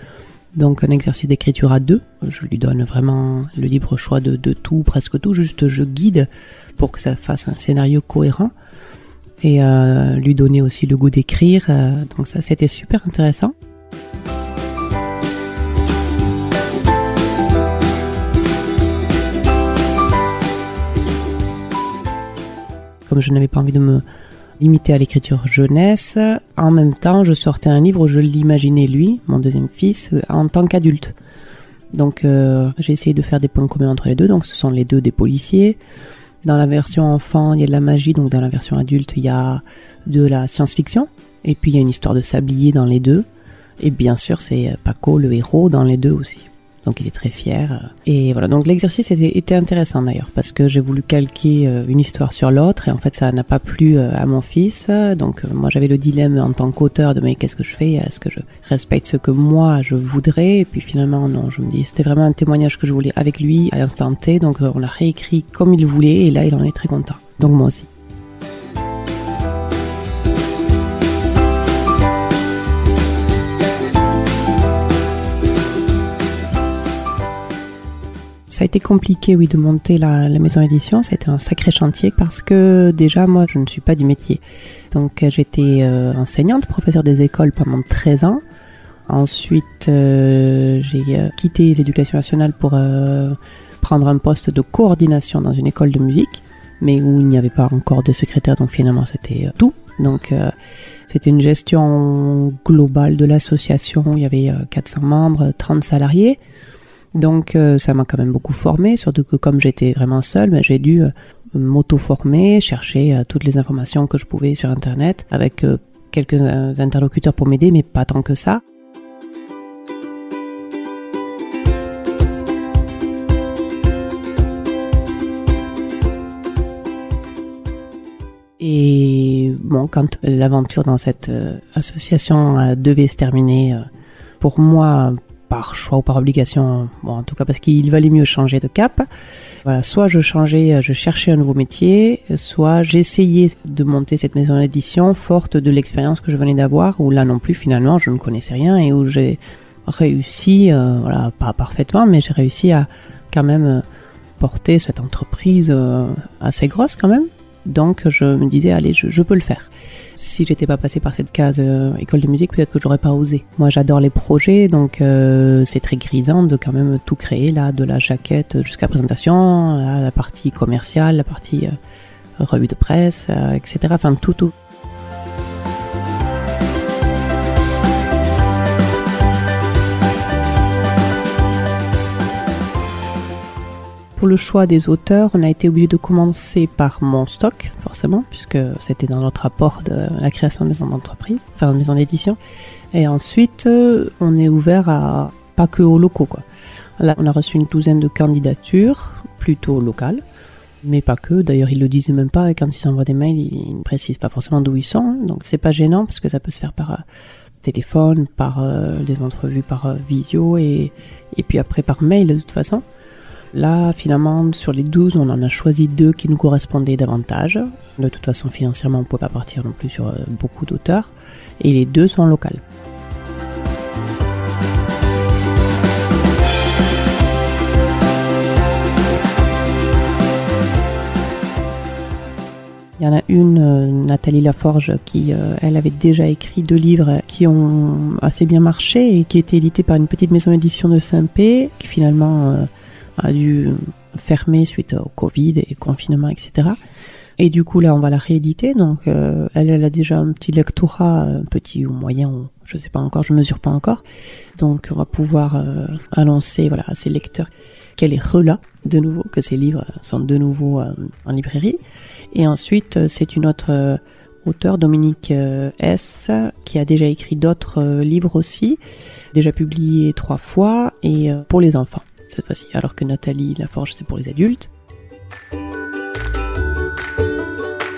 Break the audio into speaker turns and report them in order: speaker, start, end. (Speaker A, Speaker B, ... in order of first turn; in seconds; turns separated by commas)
Speaker A: 0.6-8.5, Speaker A: 9.4-13.5, Speaker A: 23.1-24.0, Speaker A: 24.6-31.2, Speaker A: 31.9-35.8, Speaker A: 36.4-43.3, Speaker A: 43.8-67.9, Speaker A: 78.5-88.4, Speaker A: 89.1-100.5, Speaker A: 101.1-106.4, Speaker A: 107.2-118.6, Speaker A: 128.6-133.8, Speaker A: 134.4-139.1, Speaker A: 139.7-153.8, Speaker A: 154.4-171.8, Speaker A: 172.4-174.5, Speaker A: 184.2-192.4, Speaker A: 192.9-196.4, Speaker A: 197.0-200.2, Speaker A: 200.8-207.0, Speaker A: 207.6-212.8, Speaker A: 213.5-222.6, Speaker A: 233.0-246.8, Speaker A: 247.4-254.0, Speaker A: 254.6-261.8, Speaker A: 262.3-268.8, Speaker A: 269.3-274.7